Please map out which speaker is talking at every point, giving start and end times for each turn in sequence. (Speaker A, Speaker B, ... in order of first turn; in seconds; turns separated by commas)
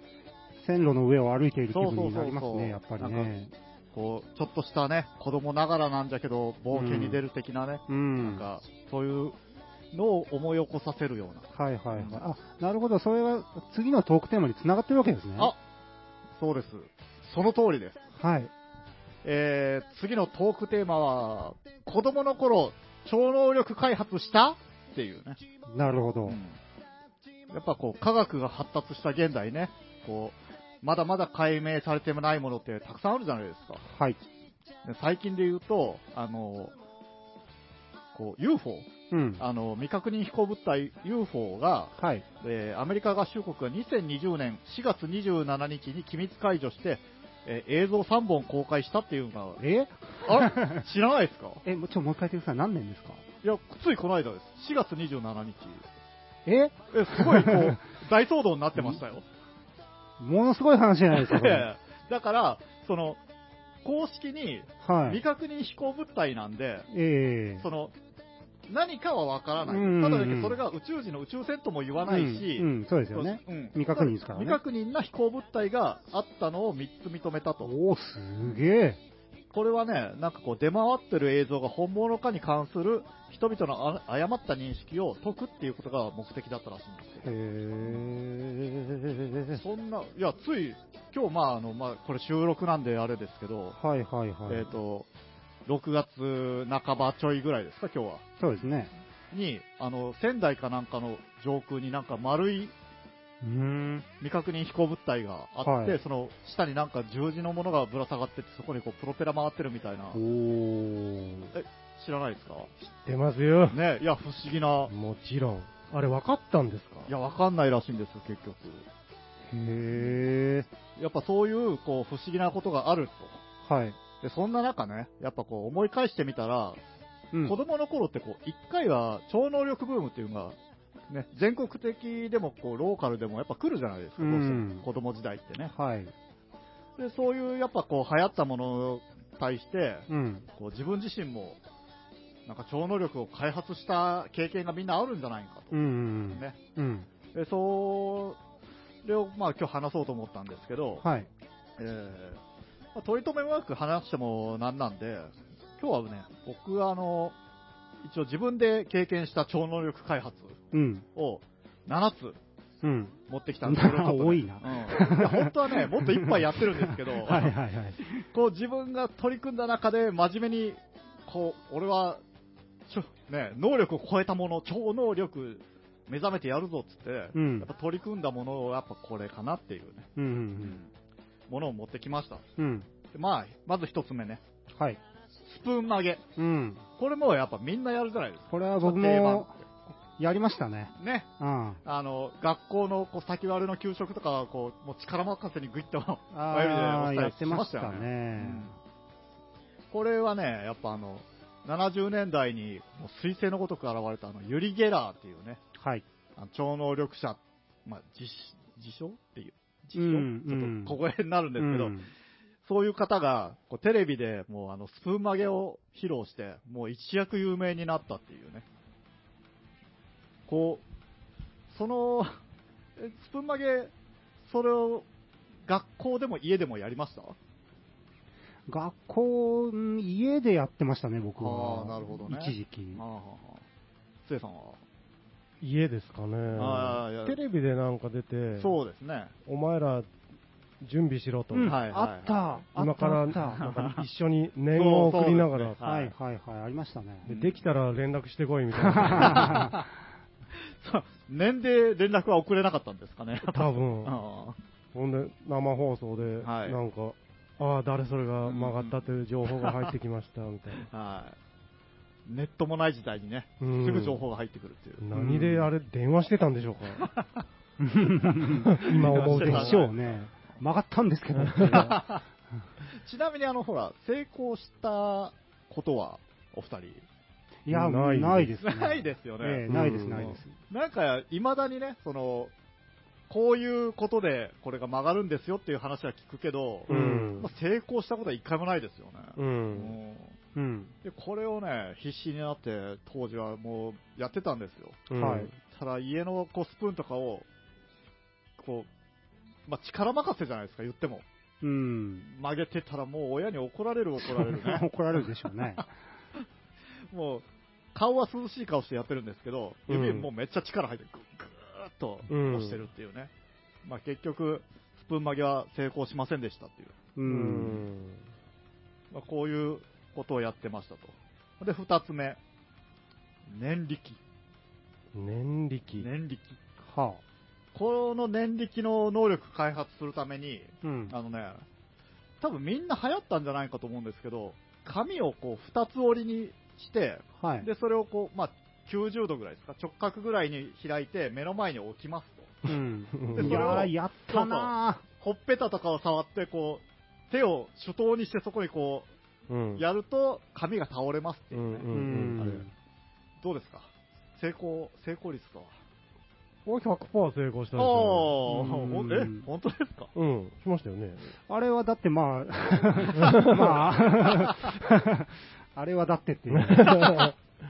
Speaker A: 0.6-3.5, Speaker B: 1.7-3.3, Speaker B: 3.9-9.3, Speaker A: 6.7-7.2, Speaker A: 7.9-8.4, Speaker B: 9.9-12.2, Speaker A: 11.5-15.5, Speaker B: 16.4-18.0, Speaker A: 18.2-18.5, Speaker B: 19.2-25.4, Speaker A: 25.7-26.4, Speaker B: 26.3-26.6, Speaker B: 27.5-33.8, Speaker A: 33.9-34.2, Speaker B: 34.8-36.7, Speaker B: 38.1-49.6, Speaker A: 39.1-39.4, Speaker A: 42.0-42.2, Speaker A: 49.6-50.8, Speaker B: 50.2-51.6, Speaker A: 51.6-53.2, Speaker B: 53.4-55.8, Speaker A: 56.5-57.8, Speaker B: 56.9-59.2, Speaker A: 58.7-59.0, Speaker A: 60.2-61.7, Speaker B: 61.1-63.2, Speaker B: 63.8-66.9, Speaker A: 64.8-65.2, Speaker A: 66.9-67.6, Speaker B: 67.6-67.9, Speaker B: 68.7-77.7, Speaker A: 69.7-70.6, Speaker A: 72.0-74.6, Speaker A: 77.6-79.0, Speaker B: 79.5-87.3, Speaker A: 87.2-89.6, Speaker B: 87.8-88.1, Speaker B: 89.5-93.8, Speaker A: 93.8-94.7, Speaker B: 94.5-95.1, Speaker B: 95.7-98.2, Speaker A: 98.4-98.9, Speaker B: 99.3-102.7, Speaker A: 103.4-104.0, Speaker B: 104.2-110.2, Speaker A: 105.6-106.0, Speaker A: 110.1-111.5, Speaker B: 111.5-112.7, Speaker C: 112.8-113.8, Speaker B: 113.7-114.9, Speaker C: 114.9-117.1, Speaker B: 117.1-118.8, Speaker A: 119.5-120.7, Speaker B: 119.9-120.2, Speaker B: 121.0-123.4, Speaker A: 123.6-124.0, Speaker B: 124.2-126.8, Speaker B: 127.4-130.6, Speaker B: 131.1-135.7, Speaker A: 134.2-134.8, Speaker A: 135.7-136.1, Speaker B: 137.0-141.6, Speaker A: 140.1-140.5, Speaker B: 142.4-146.6, Speaker A: 145.7-147.1, Speaker B: 147.3-148.4, Speaker B: 149.0-151.0, Speaker A: 151.0-151.3, Speaker B: 151.8-152.4, Speaker B: 152.9-157.3, Speaker B: 158.0-160.6, Speaker A: 160.7-161.0, Speaker B: 161.1-162.4, Speaker A: 162.8-168.2, Speaker B: 163.3-167.5, Speaker B: 168.3-172.2, Speaker B: 172.9-180.9, Speaker A: 177.3-177.7, Speaker A: 180.2-180.8, Speaker B: 181.5-182.4, Speaker A: 182.6-182.9, Speaker B: 183.1-184.4, Speaker B: 185.4-186.2, Speaker A: 186.4-186.8, Speaker B: 187.0-189.7, Speaker A: 188.5-189.5, Speaker A: 190.2-191.8, Speaker B: 191.0-191.3, Speaker B: 191.8-198.7, Speaker A: 196.3-198.7, Speaker B: 199.9-205.6, Speaker A: 205.8-206.0, Speaker B: 206.4-211.9, Speaker A: 209.9-211.0, Speaker A: 211.6-212.1, Speaker B: 212.6-218.6, Speaker B: 220.5-220.8, Speaker B: 221.7-222.4, Speaker B: 223.0-223.9, Speaker B: 224.4-225.1, Speaker B: 225.7-227.3, Speaker A: 228.7-233.0, Speaker B: 231.4-233.6, Speaker B: 234.2-234.8, Speaker C: 235.6-238.8, Speaker B: 236.5-237.4, Speaker B: 238.6-239.3, Speaker C: 239.4-240.1, Speaker C: 240.8-241.8, Speaker A: 241.5-243.7, Speaker B: 241.6-242.4, Speaker C: 242.7-245.8, Speaker B: 243.6-244.0, Speaker B: 244.7-246.1, Speaker A: 245.8-247.3, Speaker B: 247.3-247.6, Speaker C: 247.3-249.7, Speaker A: 248.8-249.8, Speaker B: 249.2-249.8, Speaker B: 250.7-254.6, Speaker C: 253.4-254.2, Speaker C: 254.9-260.9, Speaker B: 256.4-256.8, Speaker B: 258.4-259.9, Speaker B: 260.8-261.4, Speaker B: 262.2-265.1, Speaker C: 263.6-264.2, Speaker C: 265.0-267.1, Speaker A: 265.1-265.7, Speaker B: 267.0-267.4, Speaker A: 267.8-272.0, Speaker C: 268.6-269.8, Speaker B: 268.9-270.1, Speaker C: 271.3-271.9, Speaker B: 271.7-272.2, Speaker B: 272.9-277.0, Speaker A: 277.6-280.5, Speaker C: 277.7-278.5, Speaker B: 278.6-282.5, Speaker C: 279.7-280.3, Speaker B: 283.3-290.4, Speaker A: 286.9-287.4, Speaker C: 286.9-287.5, Speaker C: 289.4-289.9, Speaker A: 290.5-290.9, Speaker B: 291.0-297.4, Speaker C: 295.1-295.5, Speaker A: 295.1-295.5, Speaker B: 298.6-298.9, Speaker B: 299.7-301.2, Speaker A: 301.6-302.3, Speaker B: 302.3-304.9, Speaker A: 304.3-305.9, Speaker B: 307.1-313.3, Speaker C: 309.9-310.3, Speaker C: 312.3-312.8, Speaker B: 313.8-316.9, Speaker A: 317.1-317.9, Speaker C: 317.2-318.2, Speaker B: 319.1-322.4, Speaker B: 323.5-324.2, Speaker C: 325.1-326.1, Speaker B: 326.0-326.6, Speaker A: 326.9-327.2, Speaker B: 327.7-331.6, Speaker A: 330.8-331.1, Speaker B: 332.4-342.7, Speaker A: 337.4-337.7, Speaker A: 342.6-345.0, Speaker C: 343.1-343.9, Speaker B: 343.3-349.1, Speaker C: 349.5-349.9, Speaker B: 349.8-352.6, Speaker C: 351.5-352.6, Speaker A: 351.9-352.7, Speaker B: 353.4-355.7, Speaker C: 356.6-358.4, Speaker B: 357.8-360.1, Speaker A: 358.5-359.4, Speaker C: 360.1-361.3, Speaker A: 361.5-367.2, Speaker C: 363.1-363.8, Speaker B: 364.3-364.7, Speaker C: 366.5-367.3, Speaker B: 366.8-367.3